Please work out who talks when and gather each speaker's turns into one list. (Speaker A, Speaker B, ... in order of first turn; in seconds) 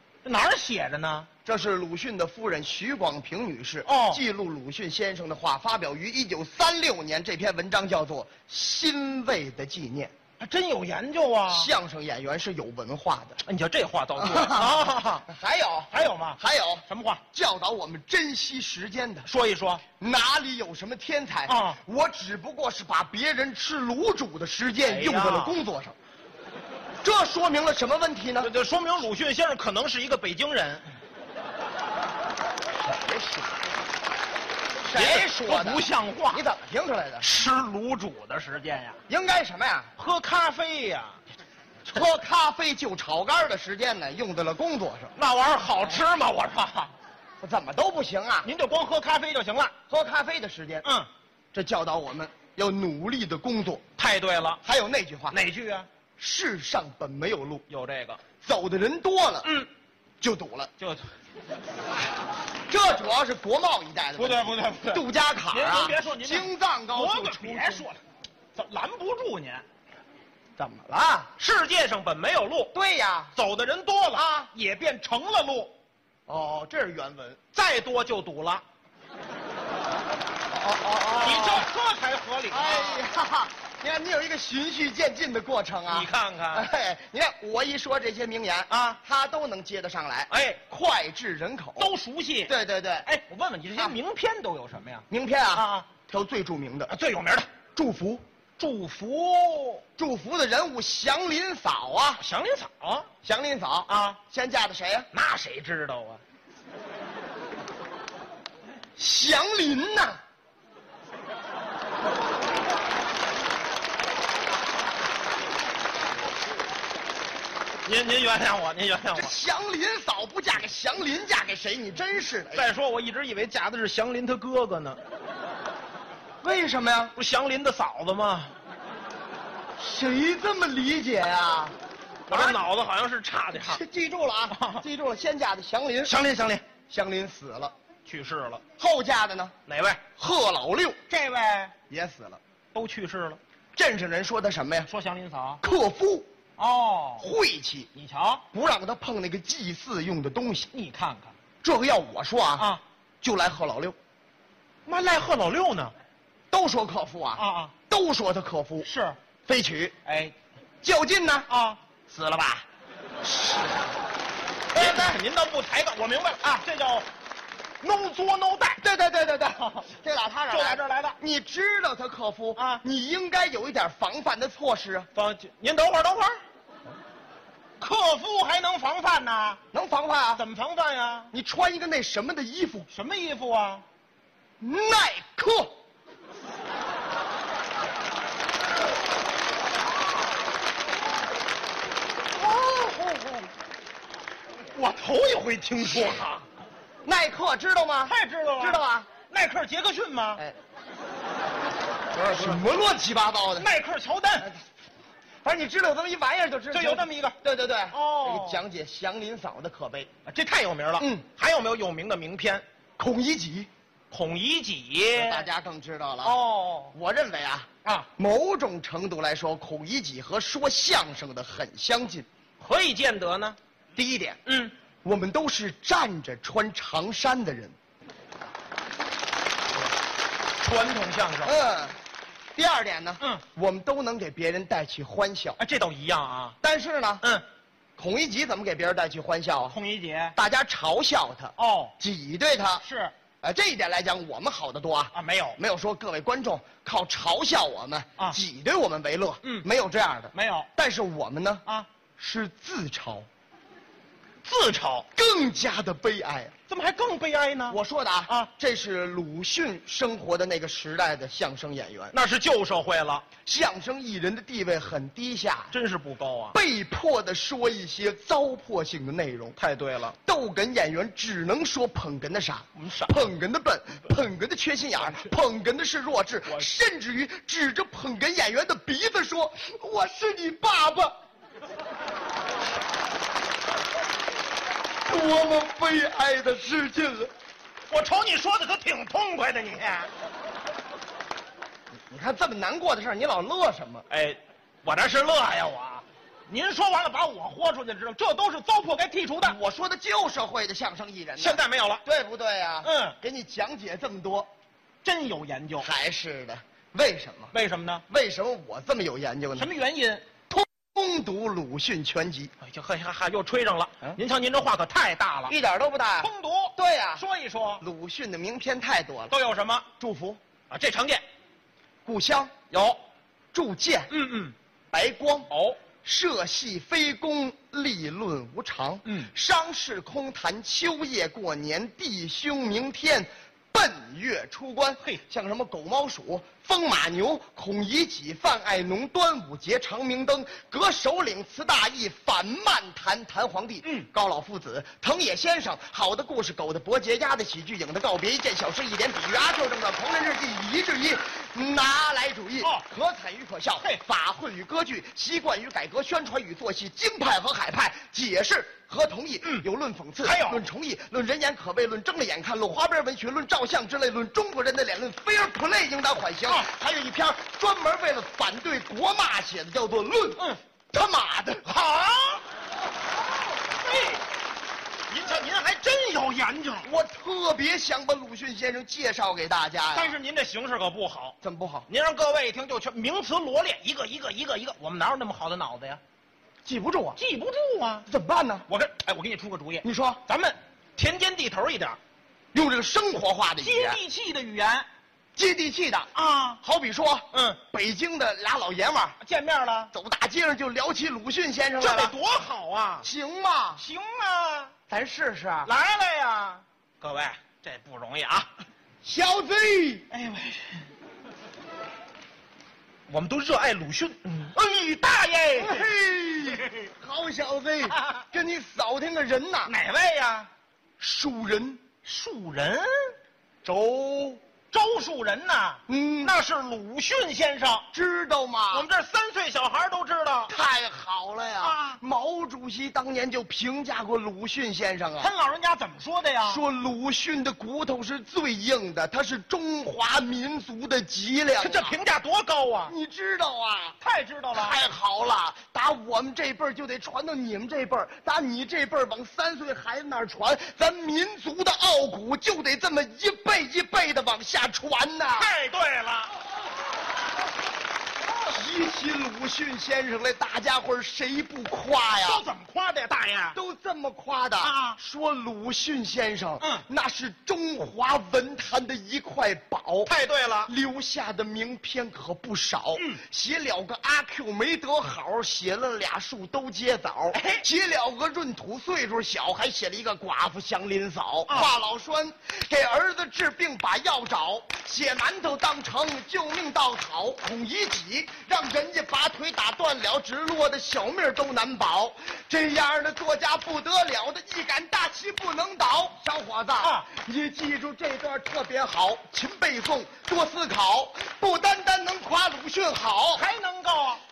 Speaker A: 0.2-1.3, 3.9-4.2, 10.4-11.7, 13.4-15.3, 15.9-17.2, 19.2-19.9, 21.5-21.8, 24.8-25.6, 28.4-30.9, 34.9-36.4, 37.2-39.0, 40.0-41.2, 45.1-46.9, 48.4-49.7, 50.8-51.1, 54.0-54.6, 55.3-55.9, 57.7-58.2, 59.4-59.7, 60.8-61.1, 64.2-68.0, 68.5-69.7, 71.3-72.7, 73.3-75.8, 77.5-78.6, 81.2-83.0, 85.9-86.7, 88.7-89.0, 90.3-90.6, 91.8-92.5, 93.0-95.9, 96.9-97.5, 98.6-99.8, 102.2-103.1, 103.9-104.2, 105.1-106.2, 117.8-119.3, 122.5-125.0, 127.2-128.5, 132.3-133.8, 134.5-134.8, 136.0-136.7, 138.1-138.6, 139.7-140.0, 141.1-141.7, 142.7-143.4, 144.9-145.6, 146.6-147.3, 147.9-148.4, 150.7-151.3, 152.6-152.8, 154.9-155.9, 157.4-157.7, 158.8-159.2, 160.1-160.3, 161.5-161.8, 164.7-167.1, 167.8-168.8, 170.5-171.2, 172.6-172.8, 175.2-176.4, 177.8-179.6, 180.4-181.3, 182.9-183.8, 192.4-193.5, 194.7-196.5, 198.1-200.4, 202.2-202.6, 203.6-204.5, 206.7-207.4, 207.9-208.6, 210.3-212.7, 214.1-215.5, 216.2-216.9, 222.6-223.6, 224.4-224.8, 230.6-231.5, 235.6-236.6, 239.7-240.4, 241.6-241.9, 242.8-243.1, 245.1-245.6, 250.3-250.7, 254.4-255.1, 256.7-258.5, 262.1-263.3, 265.7-266.6, 269.6-270.2, 272.8-273.3, 275.0-275.3, 287.9-290.1, 294.1-299.6, 301.4-302.0, 302.8-303.2, 305.0-305.9, 307.5-308.0, 309.6-310.2, 312.6-315.6, 316.2-317.8, 319.3-319.9, 320.7-321.2, 322.7-323.0, 324.1-324.6, 325.5-325.8, 329.1-329.3, 343.8-344.1, 360.2-360.6, 371.6-372.4, 373.7-374.2, 375.1-376.9, 379.9-381.4, 381.9-386.0, 387.2-388.1, 388.7-392.0, 393.6-394.9, 396.1-396.6, 397.3-397.6, 399.2-399.9, 401.8-403.1, 403.8-404.7, 405.6-408.5, 410.1-410.9, 413.1-415.9, 417.9-418.3, 419.6-420.5, 422.0-423.1, 424.7-427.9, 428.7-430.5, 431.6-432.0, 435.2-436.6, 441.6-442.9, 444.0-444.8, 455.4-456.3, 462.2-463.6, 464.6-465.0, 470.1-470.7, 473.0-473.2, 477.3-477.6, 496.8-497.1, 503.4-504.2
Speaker B: 1.4-10.1, 11.5-13.4, 14.2-19.3, 20.0-25.9, 27.0-28.5, 32.9-33.5, 34.9-37.2, 39.1-39.9, 41.9-45.1, 47.4-48.5, 49.9-50.9, 51.5-53.8, 54.6-55.4, 56.2-57.6, 58.4-59.5, 60.2-60.7, 62.7-67.9, 70.6-71.3, 72.7-73.3, 74.1-74.5, 76.3-77.4, 80.5-81.7, 82.5-91.9, 92.5-93.1, 95.1-96.9, 97.8-98.2, 100.0-102.2, 103.2-105.1, 109.0-110.2, 119.1-122.7, 126.4-127.2, 129.8-131.8, 132.3-132.6, 133.5-136.2, 136.9-137.7, 138.8-139.5, 140.2-141.0, 141.9-142.4, 143.8-144.9, 145.6-146.3, 147.2-147.9, 148.5-150.7, 151.6-152.7, 153.2-154.0, 156.5-158.9, 159.5-159.9, 160.8-161.5, 162.1-162.7, 164.8-165.1, 168.8-175.1, 179.7-180.4, 181.3-182.9, 184.6-185.8, 197.1-199.1, 202.2-203.7, 205.4-210.1, 211.0-211.3, 213.0-213.7, 215.1-216.4, 216.9-222.3, 224.0-224.4, 225.0-227.8, 231.4-232.0, 232.6-235.6, 236.6-237.2, 238.0-239.8, 240.3-242.8, 243.4-251.7, 252.2-253.3, 255.2-256.5, 257.7-262.1, 263.4-265.7, 266.5-269.6, 270.2-281.1, 285.1-287.3, 292.1-294.1, 299.4-304.5, 305.8-307.5, 308.1-309.7, 310.5-312.5, 315.5-317.2, 317.8-319.3, 320.0-320.4, 322.1-322.5, 323.5-324.1, 324.9-325.5, 326.0-371.7, 376.8-380.1, 381.4-381.9, 386.6-387.2, 388.1-388.7, 389.8-390.2, 392.5-394.0, 395.4-399.2, 399.9-402.1, 403.0-403.8, 404.9-405.7, 409.0-410.1, 415.6-419.8, 421.0-421.8, 423.6-424.4, 425.9-426.4, 427.9-428.9, 430.5-435.3, 436.5-442.0, 442.9-444.0, 444.5-455.5, 458.5-462.4, 463.5-470.1, 470.7-503.5